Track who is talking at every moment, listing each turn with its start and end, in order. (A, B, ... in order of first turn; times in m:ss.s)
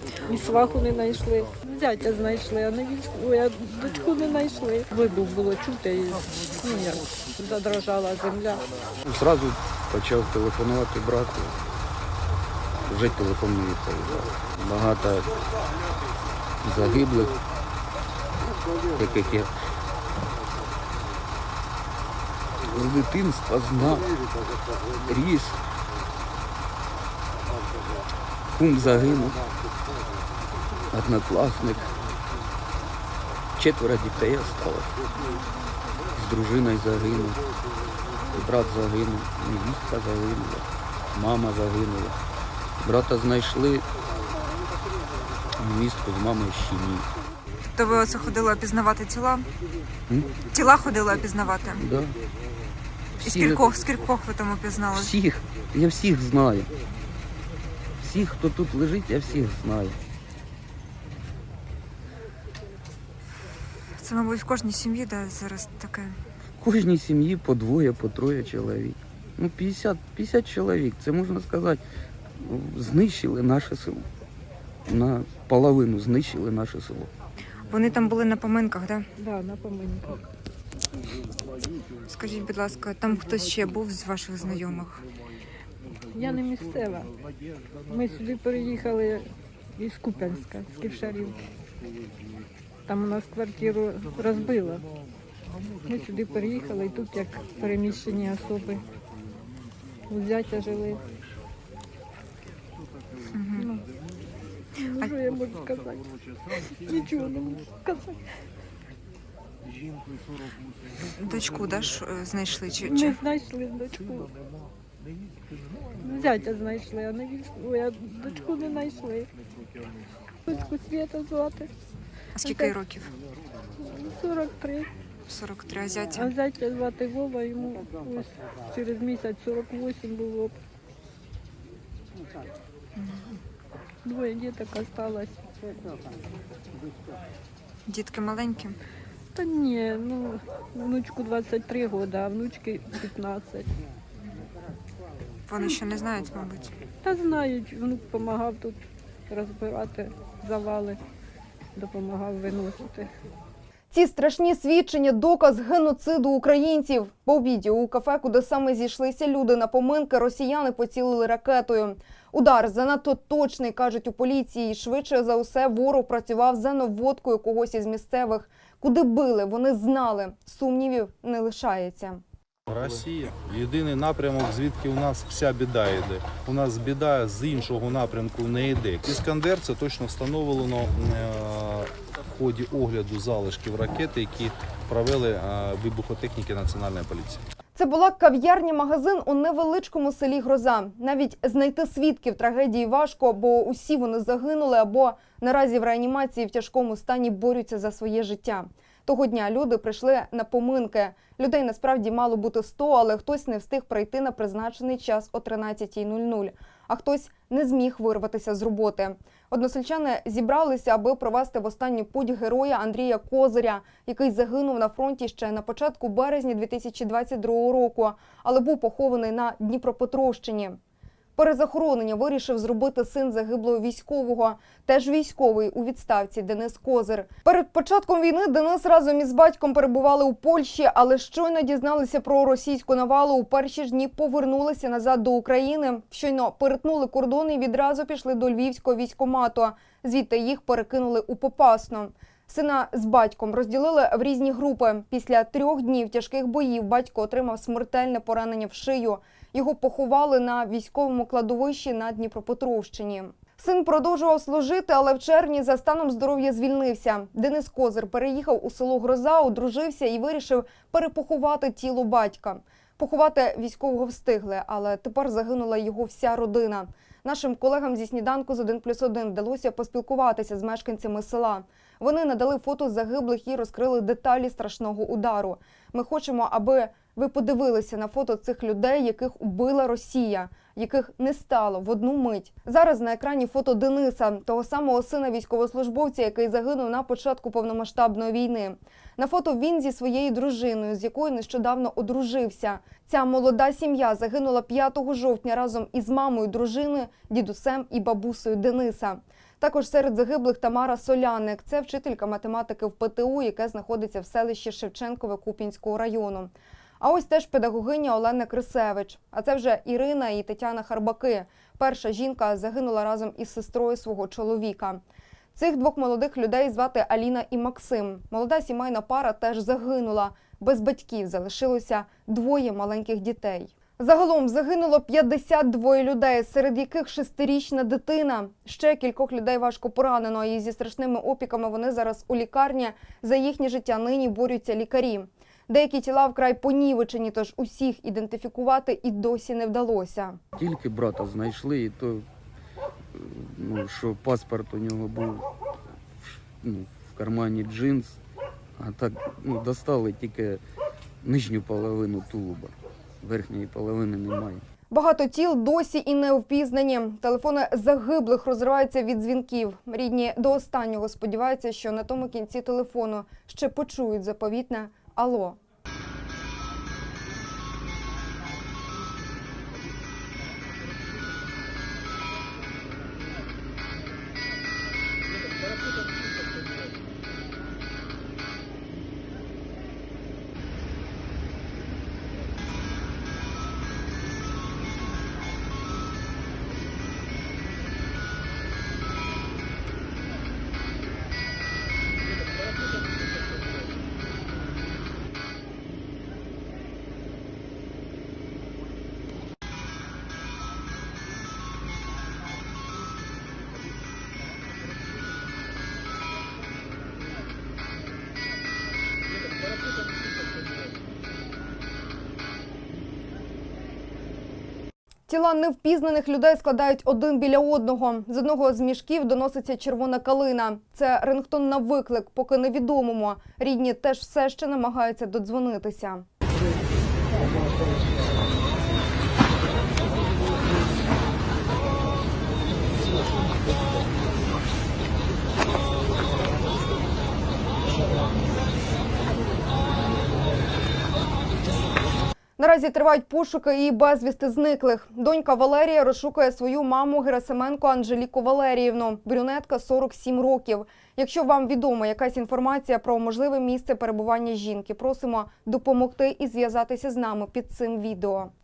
0:00.2-0:08.7 A
0:09.0-0:11.6 B
0:12.9-0:15.4 B
0:16.6-0:17.4 B
0:19.0-0:19.5 B
0:22.6-0:24.2 B
0:25.0-0:25.6 B
0:28.6-0:29.4 B
0:30.9-0:32.0 B
0:33.6-0:35.0 B
0:36.2-0:37.4 B
0:38.3-0:42.2 B
0:42.8-0:43.8 B
0:45.6-0:47.1 B
0:47.7-0:49.5 C
0:50.1-0:50.3 B
0:50.5-0:51.8 C
0:51.8-0:52.2 B
0:53.2-0:53.8 B
0:53.2-0:55.1 C
0:54.9-0:56.7 B
0:58.0-1:00.0 B
1:04.0-1:06.2 C
1:06.6-1:11.8 B
1:12.4-1:14.1 B
1:14.9-1:17.1 B
1:17.7-1:19.1 C
1:19.2-1:20.3 A
1:22.1-1:25.1 C
1:26.1-1:27.1 A
1:27.9-1:31.4 A
1:32.9-1:34.9 A
1:35.8-1:38.9 A
1:40.1-1:41.0 A
1:43.3-1:43.7 C
1:43.6-1:43.9 A
1:44.8-1:48.2 A
1:51.2-1:53.2 C
1:52.8-1:54.3 A
1:56.0-1:59.3 A
2:00.5-2:01.7 A
2:02.4-2:03.1 C
2:02.4-2:02.8 A
2:03.8-2:04.9 A
2:05.3-2:06.3 C
2:06.1-2:10.6 A
2:13.0-2:13.4 C
2:14.0-2:15.4 A
2:17.9-2:18.8 C
2:19.4-2:23.7 A
2:25.5-2:26.8 C
2:27.0-2:31.0 A
2:31.8-2:33.1 A
2:33.9-2:52.2 D
2:52.7-3:07.4 E
3:07.8-3:40.8 D
3:41.4-5:15.0 D
5:15.6-5:40.4 D
5:40.6-5:42.3 B
5:43.1-5:45.5 B
5:46.2-5:48.2 B
5:48.8-5:50.6 B
5:51.2-5:54.6 B
5:54.9-6:05.6 D
6:55.3-7:06.2 D
7:22.6-7:38.5 D